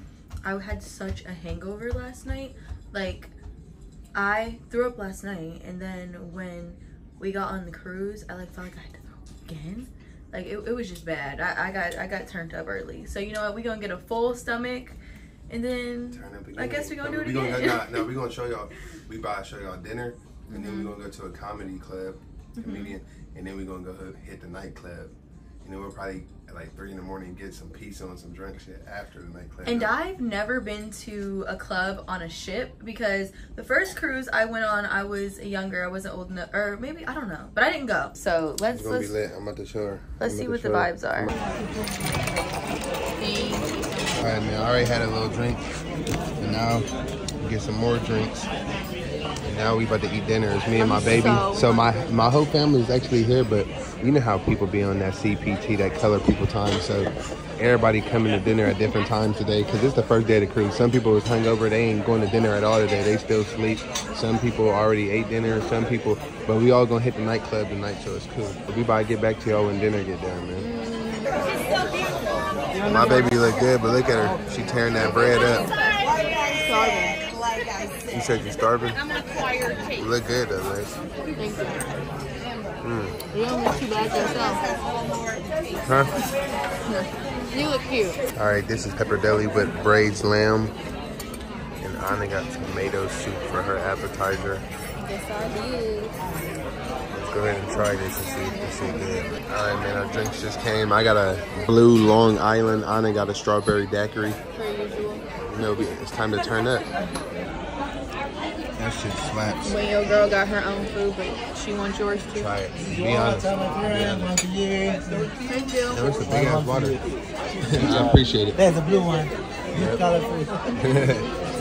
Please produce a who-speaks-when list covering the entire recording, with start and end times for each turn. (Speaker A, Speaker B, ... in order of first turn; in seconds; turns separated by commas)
Speaker A: 0.4-3.3, Speaker A: 4.1-15.0, Speaker A: 15.5-18.0, Speaker B: 16.1-29.9, Speaker A: 20.5-20.9, Speaker A: 22.6-22.9, Speaker A: 29.6-39.1, Speaker B: 38.7-41.3, Speaker A: 40.2-41.3, Speaker A: 43.2-44.4, Speaker B: 44.2-45.6, Speaker B: 46.4-46.9, Speaker B: 47.4-48.5, Speaker B: 49.4-70.7, Speaker A: 50.8-51.8, Speaker A: 70.6-71.4, Speaker B: 72.8-75.7, Speaker A: 76.6-77.2, Speaker B: 78.1-79.0, Speaker B: 79.9-81.0, Speaker A: 81.4-81.9, Speaker B: 82.8-83.2, Speaker A: 83.3-84.7, Speaker B: 85.8-86.1, Speaker A: 86.9-88.2, Speaker B: 88.3-90.8, Speaker B: 91.8-94.7, Speaker A: 95.0-96.2, Speaker B: 97.1-104.4, Speaker A: 104.5-105.3, Speaker B: 105.5-106.9, Speaker B: 108.8-109.8, Speaker A: 109.6-112.5, Speaker B: 112.3-114.4, Speaker C: 114.5-115.1, Speaker A: 115.4-116.0, Speaker B: 115.9-117.0, Speaker B: 117.6-118.6, Speaker C: 118.6-120.2, Speaker B: 119.7-120.1, Speaker B: 120.8-121.3